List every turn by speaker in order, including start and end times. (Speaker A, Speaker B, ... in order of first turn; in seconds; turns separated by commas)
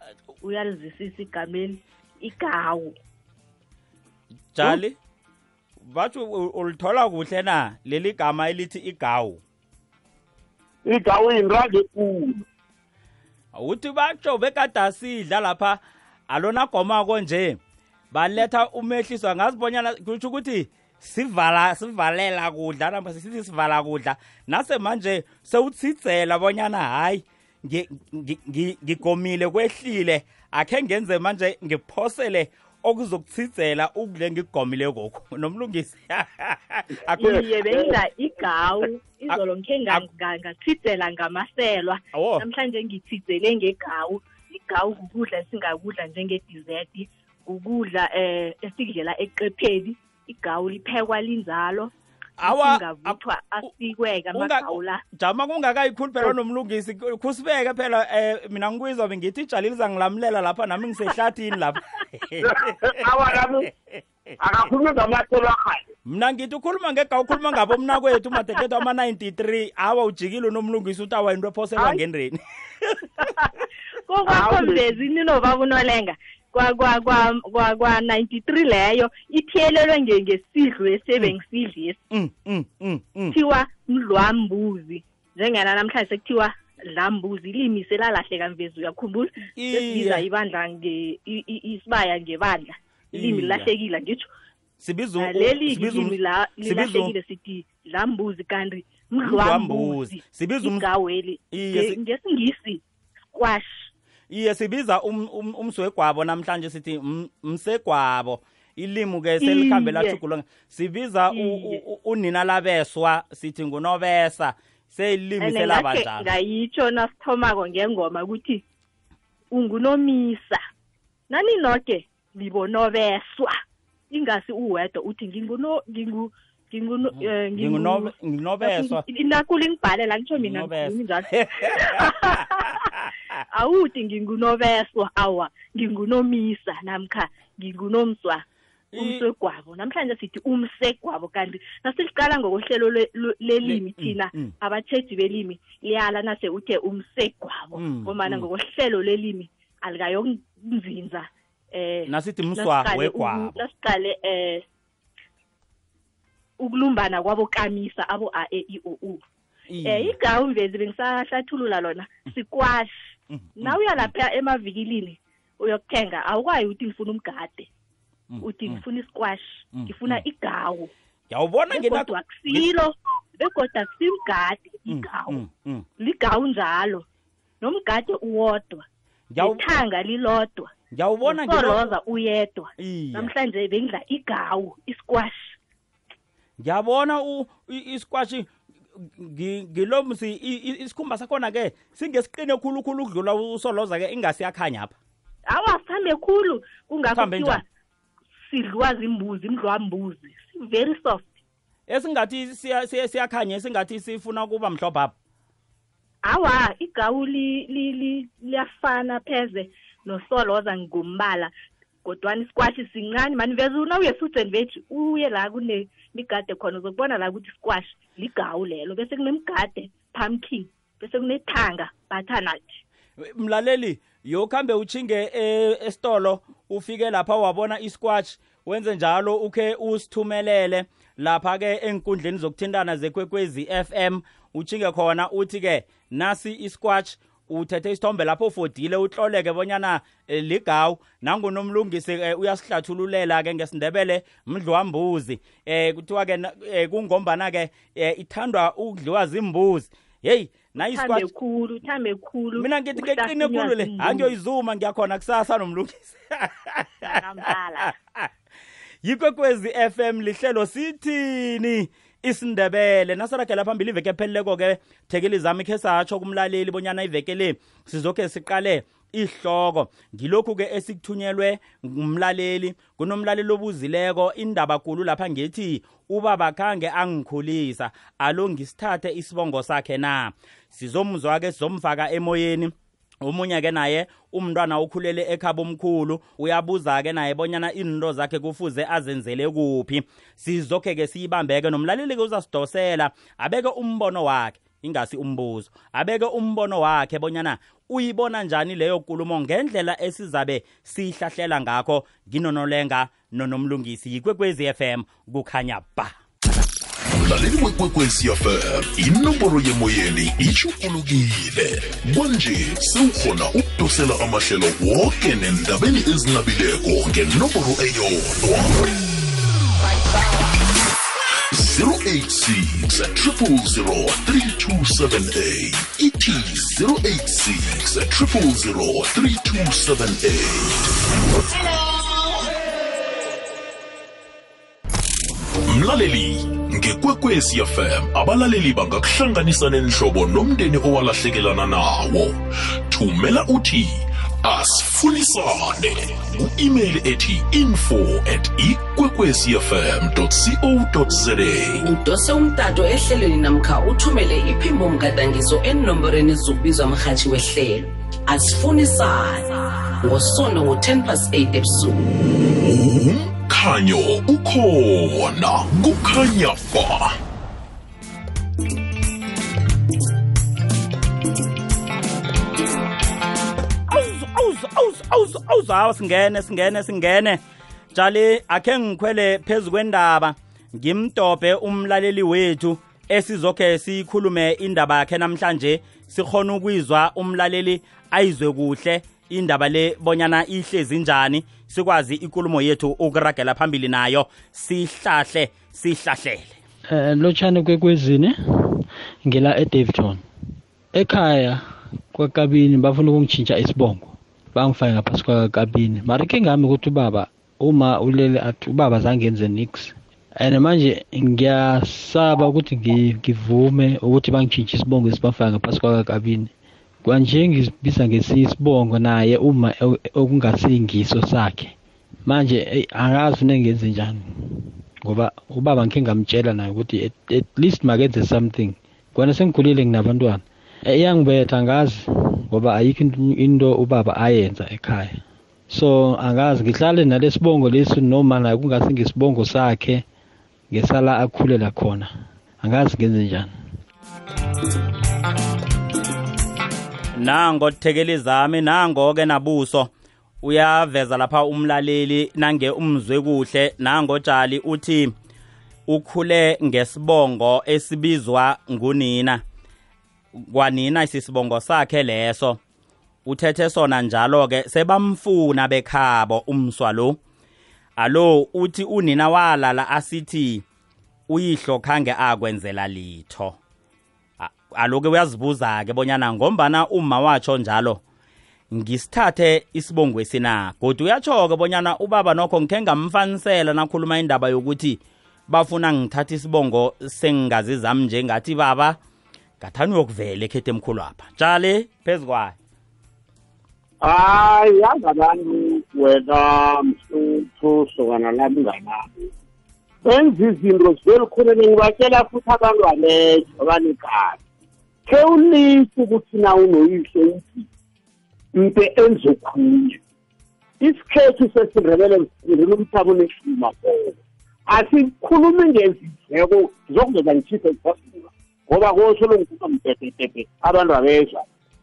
Speaker A: 0.4-2.9, Speaker B: 4.5-5.0, Speaker B: 5.8-9.4, Speaker C: 10.8-12.4, Speaker B: 13.5-17.6, Speaker B: 18.1-37.4, Speaker A: 37.1-51.9, Speaker C: 37.2-38.0, Speaker B: 42.1-42.4, Speaker B: 52.4-53.2, Speaker A: 52.4-55.0, Speaker B: 54.3-63.0, Speaker C: 62.4-63.7, Speaker C: 64.4-65.9, Speaker B: 66.0-73.3, Speaker A: 73.2-82.0, Speaker C: 74.3-74.9, Speaker B: 82.1-83.3, Speaker A: 83.3-94.3, Speaker B: 89.5-90.2, Speaker B: 93.1-93.7, Speaker B: 94.8-97.1, Speaker A: 95.2-103.9, Speaker B: 99.2-100.8, Speaker B: 101.5-102.0, Speaker B: 104.3-116.3, Speaker A: 109.4-110.2, Speaker A: 111.3-111.8, Speaker A: 115.4-118.6, Speaker A: 119.5-120.6, Speaker A: 121.3-123.6, Speaker A: 124.1-132.9, Speaker B: 127.2-129.0, Speaker B: 130.3-133.3, Speaker A: 133.5-138.4, Speaker B: 138.9-139.2, Speaker A: 138.9-154.6, Speaker B: 143.6-144.5, Speaker B: 147.7-148.5, Speaker B: 152.1-153.6, Speaker A: 156.6-159.2, Speaker B: 159.7-160.1, Speaker A: 159.8-167.7, Speaker B: 163.3-164.1, Speaker B: 168.3-168.8, Speaker A: 168.4-170.9, Speaker B: 169.7-170.2, Speaker B: 171.3-172.6, Speaker A: 171.7-175.4, Speaker B: 174.9-175.8, Speaker A: 176.0-177.0, Speaker A: 177.6-178.8, Speaker B: 179.3-179.6, Speaker A: 179.4-180.7, Speaker B: 180.9-181.8, Speaker A: 181.2-185.6, Speaker B: 182.8-183.3, Speaker B: 186.6-194.9, Speaker A: 195.5-197.6, Speaker B: 197.1-197.6, Speaker A: 198.4-201.3, Speaker B: 201.9-205.1, Speaker A: 206.2-211.5, Speaker A: 212.0-222.8, Speaker B: 223.2-251.2, Speaker A: 250.8-254.3, Speaker B: 252.6-258.3, Speaker A: 257.0-257.9, Speaker B: 259.0-306.1, Speaker D: 307.1-318.7, Speaker D: 321.5-330.9, Speaker D: 335.6-351.8, Speaker E: 351.8-362.1, Speaker D: 362.5-367.2, Speaker B: 373.9-377.4, Speaker B: 377.9-396.6, Speaker F: 396.9-400.2, Speaker F: 400.9-416.5, Speaker F: 417.0-421.7, Speaker F: 422.2-440.0, Speaker F: 440.7-443.5, Speaker B: 447.1-449.9, Speaker B: 450.4-455.1, Speaker B: 455.9-459.4, Speaker B: 460.3-462.6, Speaker B: 463.2-467.2, Speaker B: 468.0-470.6, Speaker B: 471.3-473.6, Speaker B: 474.4-478.0, Speaker B: 478.7-489.0, Speaker B: 489.6-492.5, Speaker C: 494.0-499.3, Speaker C: 500.0-504.4, Speaker C: 505.1-507.7, Speaker C: 508.5-510.0, Speaker C: 510.8-514.1, Speaker C: 514.7-521.5